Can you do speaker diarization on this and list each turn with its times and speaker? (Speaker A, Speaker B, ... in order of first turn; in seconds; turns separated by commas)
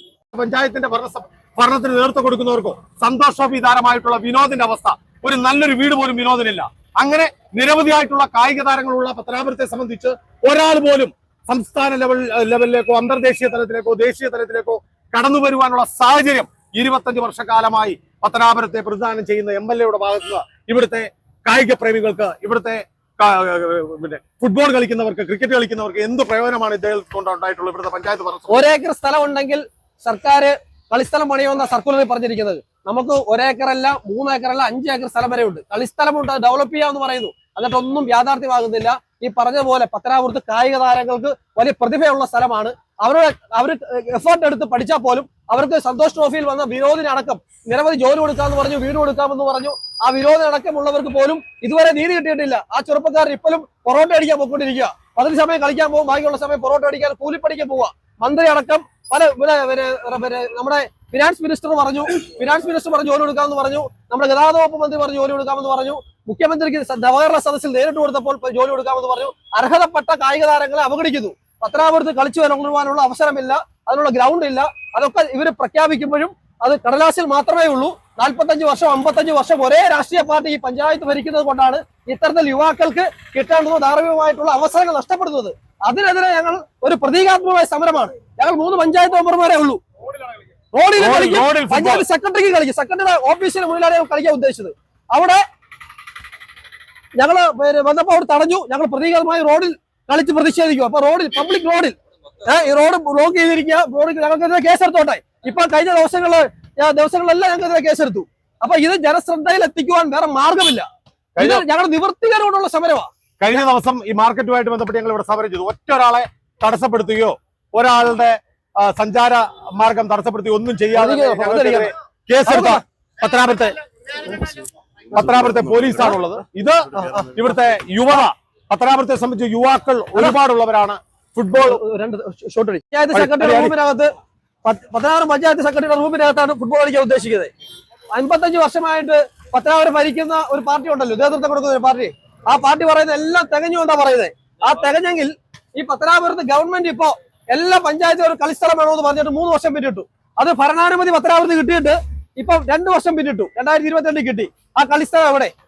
Speaker A: 0.3-28.6, Speaker B: 28.5-89.8, Speaker B: 90.7-95.4, Speaker A: 91.0-92.1, Speaker B: 97.2-110.9, Speaker A: 111.4-111.7, Speaker B: 111.4-113.1, Speaker A: 113.4-123.8, Speaker B: 121.0-121.9, Speaker B: 122.5-122.8, Speaker A: 125.1-131.8, Speaker B: 126.0-126.3, Speaker B: 126.9-127.4, Speaker B: 131.6-134.1, Speaker A: 133.1-133.8, Speaker B: 134.6-137.5, Speaker B: 138.1-155.5